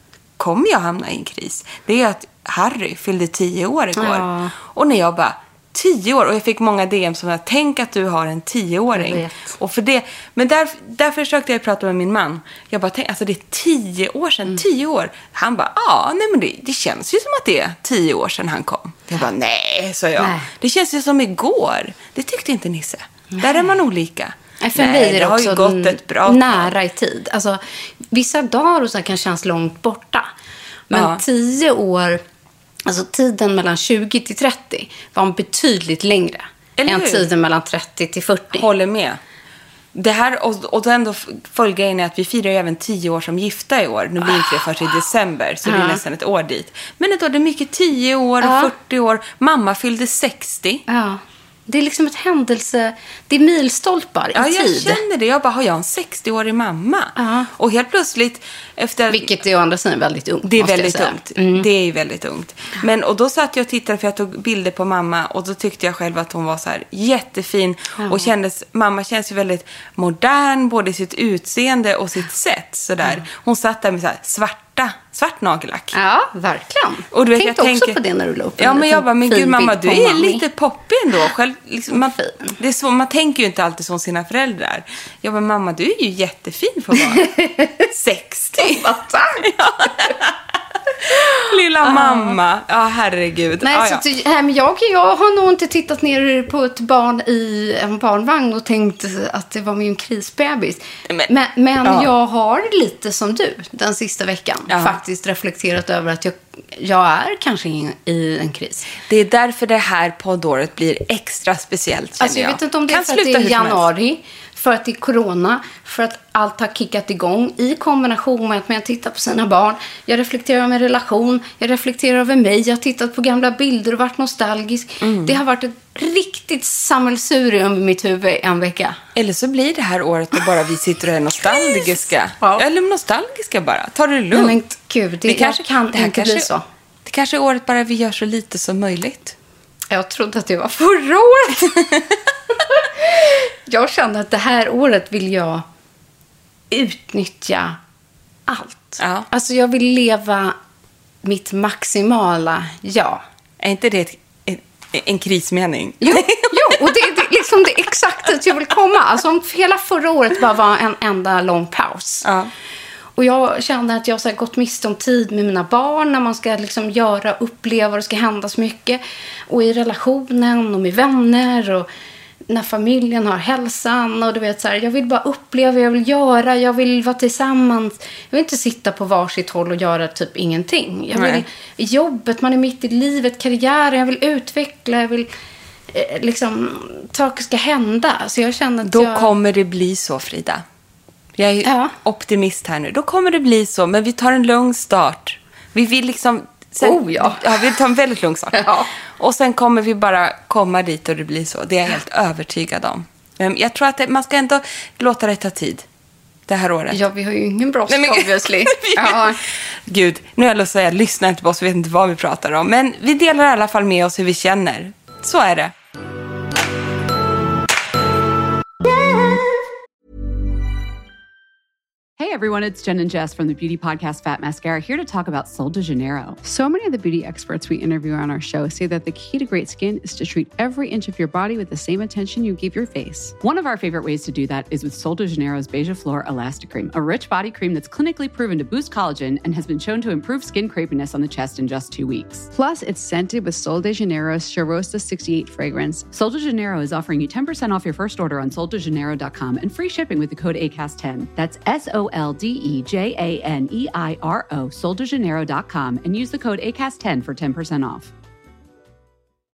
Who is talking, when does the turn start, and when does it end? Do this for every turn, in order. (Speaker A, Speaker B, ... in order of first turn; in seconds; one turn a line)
Speaker A: 0.4-26.7
Speaker B: 4.0-4.5
Speaker B: 8.9-9.5
Speaker B: 20.2-20.5
Speaker B: 23.3-23.6
Speaker B: 24.6-27.6
Speaker B: 28.1-30.3
Speaker B: 30.9-32.2
Speaker A: 30.9-31.2
Speaker B: 32.9-38.6
Speaker A: 36.8-37.3
Speaker A: 38.5-39.2
Speaker A: 39.9-50.8
Speaker B: 44.3-44.6
Speaker B: 45.6-46.0
Speaker B: 48.4-48.7
Speaker B: 50.9-55.0
Speaker A: 54.4-59.3
Speaker B: 57.2-57.5
Speaker B: 59.1-61.7
Speaker A: 60.5-76.0
Speaker B: 68.0-68.3
Speaker B: 76.0-80.4
Speaker A: 77.1-78.0
Speaker A: 78.6-87.3
Speaker B: 82.0-82.5
Speaker B: 87.1-87.9
Speaker A: 87.9-88.9
Speaker B: 88.6-90.2
Speaker A: 89.4-90.4
Speaker A: 91.0-94.0
Speaker B: 91.1-92.4
Speaker B: 93.6-108.9
Speaker A: 101.8-102.1
Speaker A: 104.7-105.0
Speaker A: 109.1-113.8
Speaker B: 112.2-129.0
Speaker A: 125.0-125.4
Speaker A: 129.2-134.6
Speaker B: 132.4-132.7
Speaker B: 134.3-136.7
Speaker A: 135.2-136.5
Speaker A: 137.1-139.4
Speaker B: 139.9-142.0
Speaker B: 142.6-145.7
Speaker B: 146.7-147.8
Speaker B: 148.5-150.6
Speaker A: 149.0-149.3
Speaker B: 151.2-153.2
Speaker A: 153.6-156.9
Speaker B: 156.0-162.3
Speaker A: 162.2-162.5
Speaker B: 163.2-171.9
Speaker B: 172.5-185.3
Speaker A: 181.1-181.4
Speaker B: 185.9-189.3
Speaker A: 188.8-190.6
Speaker A: 191.4-205.9
Speaker B: 191.6-191.9
Speaker B: 196.8-197.6
Speaker B: 198.5-198.9
Speaker A: 206.5-207.0
Speaker B: 206.9-209.4
Speaker A: 207.9-209.3
Speaker A: 209.9-215.7
Speaker C: 222.2-226.4
Speaker D: 226.4-233.3
Speaker C: 233.4-242.5
Speaker D: 242.5-246.1
Speaker C: 246.1-258.1